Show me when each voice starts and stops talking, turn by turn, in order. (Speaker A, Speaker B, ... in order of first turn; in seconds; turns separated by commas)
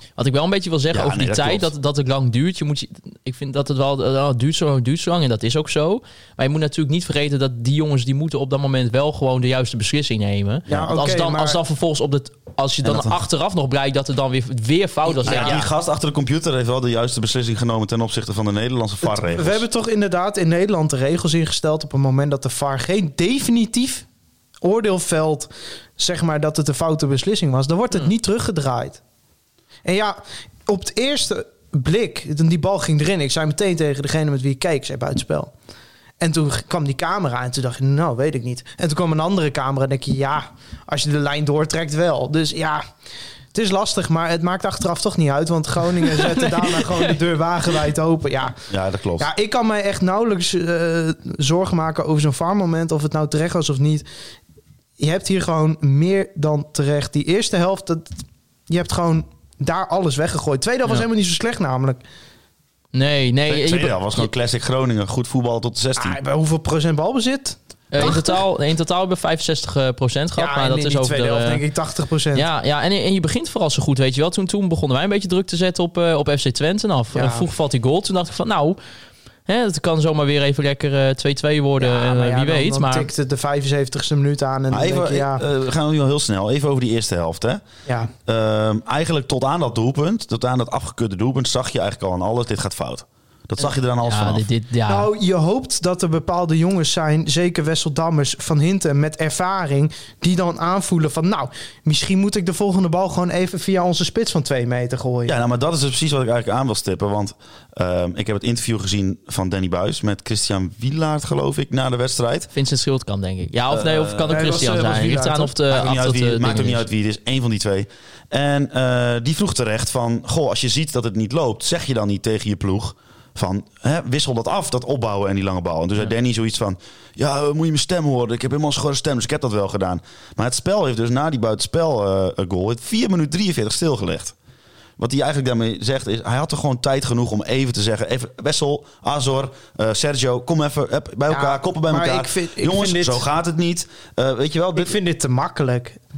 Speaker A: 0.2-15.7, Speaker B: 0.9-1.7, Speaker B: 10.7-10.9, Speaker C: 10.7-11.6, Speaker B: 12.8-13.2, Speaker C: 15.1-15.6, Speaker B: 15.2-19.6, Speaker C: 19.0-24.1, Speaker C: 24.6-29.0, Speaker C: 29.9-35.5, Speaker C: 36.2-42.9, Speaker C: 43.5-48.6, Speaker A: 46.1-47.2, Speaker B: 48.7-49.3, Speaker C: 49.2-54.0, Speaker C: 55.0-62.0, Speaker A: 62.9-64.3, Speaker B: 63.5-66.2, Speaker C: 66.0-68.4, Speaker A: 67.9-71.6, Speaker C: 70.4-72.5, Speaker A: 72.3-78.8, Speaker C: 77.1-77.5, Speaker A: 79.5-83.1, Speaker C: 81.8-85.4, Speaker B: 84.7-87.6, Speaker C: 87.9-88.1, Speaker B: 88.3-94.5, Speaker A: 94.0-95.1, Speaker C: 94.9-105.4, Speaker B: 105.3-112.5, Speaker A: 112.5-116.8, Speaker B: 113.7-114.3, Speaker C: 114.3-115.6, Speaker B: 115.7-134.3, Speaker B: 135.0-145.0, Speaker C: 141.3-143.2, Speaker C: 144.8-146.0